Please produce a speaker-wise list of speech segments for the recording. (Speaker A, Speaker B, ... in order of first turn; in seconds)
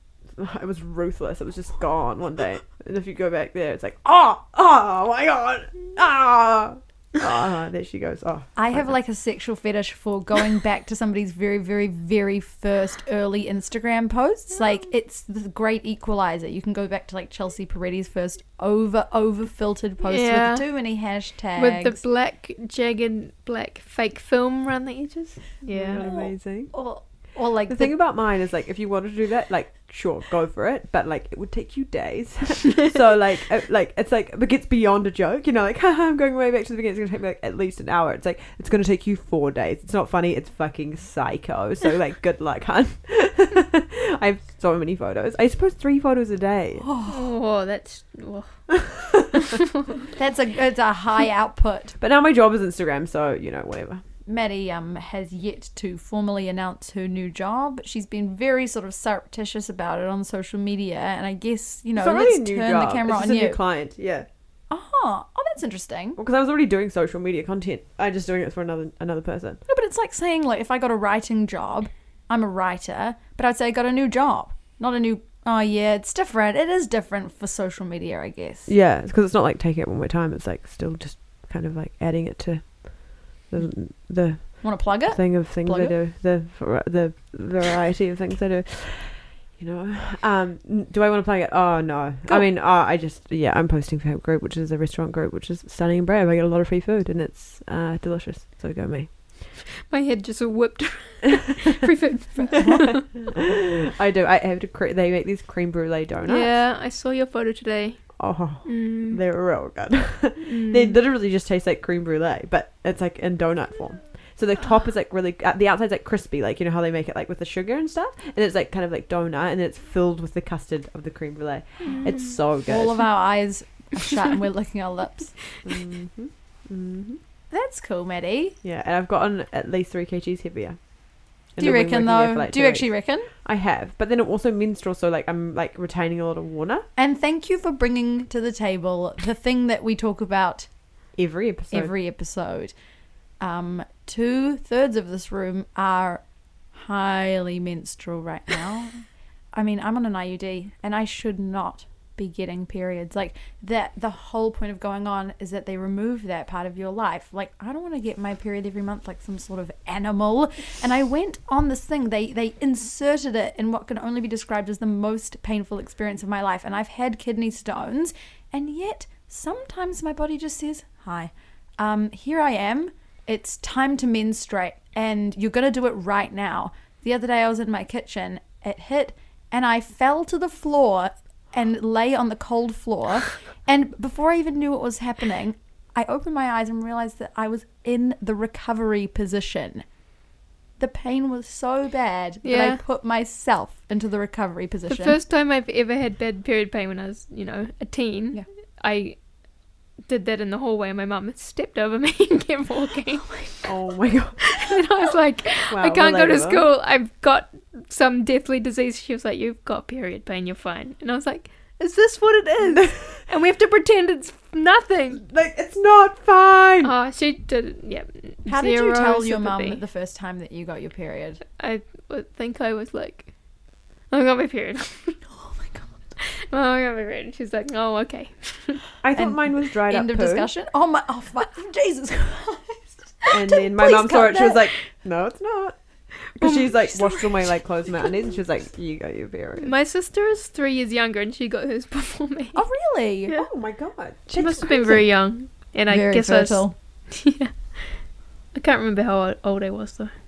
Speaker A: 0.4-8.9, 25.7-26.7, 27.7-46.9, 48.8-49.3, 52.0-54.0, 62.0-64.3, 66.2-69.6, 78.7-99.3, 102.7-106.6, 108.2-123.1, 125.6-127.2, 128.6-130.9, 131.5-136.9, 141.2-141.9, 203.6-204.4, 205.7-206.7, 212.8-213.0, 215.3-216.9, 229.0-230.5, 233.3-235.8, 236.3-239.7, 243.3-244.7
Speaker B: 8.6-22.0, 25.9-28.0, 46.8-47.3, 50.1-52.0, 54.3-63.6, 64.7-66.2, 69.7-78.7, 84.6-86.0, 102.4-103.1, 121.9-122.1, 122.7-125.4, 127.5-128.6, 131.6-133.3, 137.0-140.7, 141.7-142.8, 143.4-189.9, 190.8-195.2, 218.5-221.4, 225.4-225.9, 229.2-234.7, 242.6-243.4, 244.4-245.1, 245.9-246.7
Speaker C: 20.0-20.9, 21.6-26.0, 47.1-49.0, 99.9-103.0, 106.3-109.2, 110.4-111.0, 121.8-122.4, 192.4-192.8, 194.9-199.2, 200.1-203.7, 204.5-215.2, 216.8-219.8, 221.6-223.3, 224.1-225.3, 226.2-228.8, 236.4-237.3, 239.6-242.6, 244.3-250.1